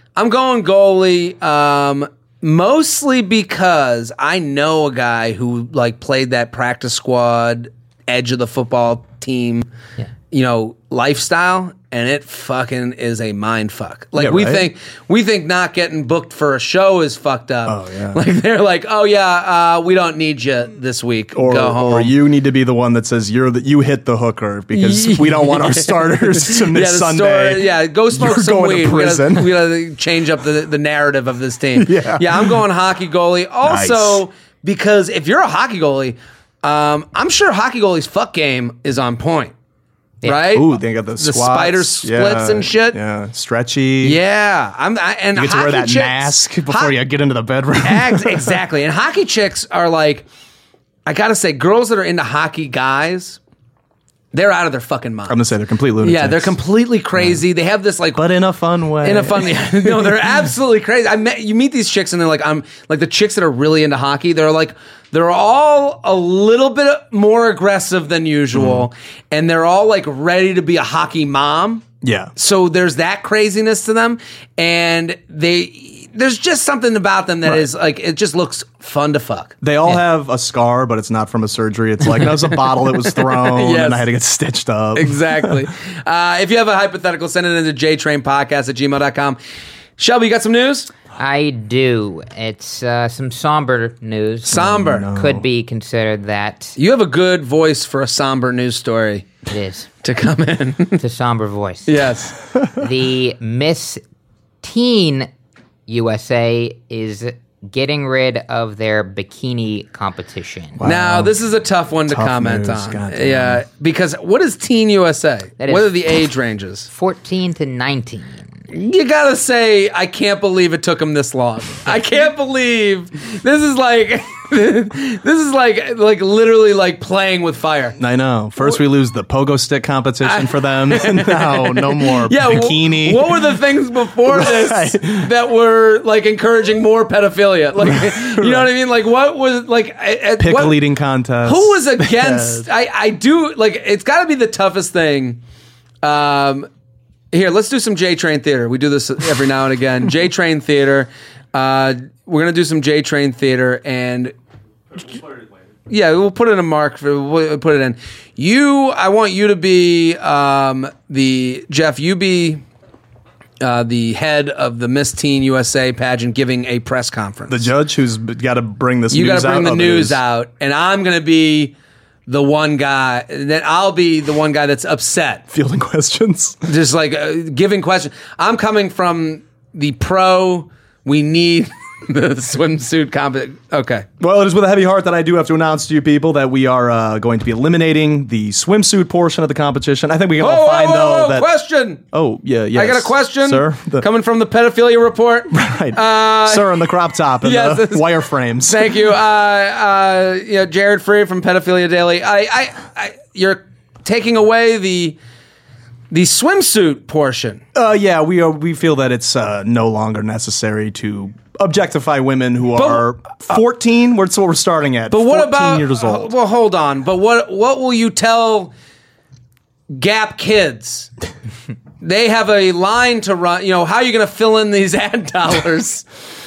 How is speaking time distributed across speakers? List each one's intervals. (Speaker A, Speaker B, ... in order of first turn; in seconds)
Speaker A: 0.1-9.7, 10.3-22.1, 24.7-39.5, 40.2-43.0, 44.0-47.0, 47.8-50.2, 51.0-53.4, 54.3-55.5, 56.0-58.2, 59.0-71.8, 72.3-79.6, 82.2-84.1, 85.0-89.4, 90.0-90.9, 94.5-95.1, 96.8-99.3, 100.0-101.0, 101.8-102.3, 110.8-116.9, 118.7-128.0, 130.2-140.8, 141.4-145.4, 146.0-146.7, 147.3-154.3, 155.9-162.6, 163.6-167.7, 169.1-171.7, 172.3-175.4, 176.7-184.1, 190.4-192.0, 192.7-196.8, 197.4-205.2, 206.1-207.6, 212.7-213.6, 215.1-218.7, 219.9-221.1, 222.0-226.1
Speaker B: 14.2-14.7, 17.6-18.2, 21.3-29.7, 31.7-32.6, 33.6-34.2, 40.5-44.2, 45.3-48.6, 55.3-56.5, 57.1-57.4, 58.1-60.5, 68.5-68.9, 72.0-72.3, 79.6-85.7, 94.5-95.5, 110.8-111.3, 112.0-113.6, 128.0-133.6, 134.2-135.3, 137.8-138.7, 140.4-142.7, 167.5-170.2, 175.5-176.6, 184.2-191.5, 192.0-194.1, 195.5-199.0, 207.7-216.3
Speaker C: 91.2-96.8, 99.5-99.9, 101.0-102.1, 102.7-104.0, 104.6-105.3, 105.9-110.8, 115.6-116.2, 116.9-118.5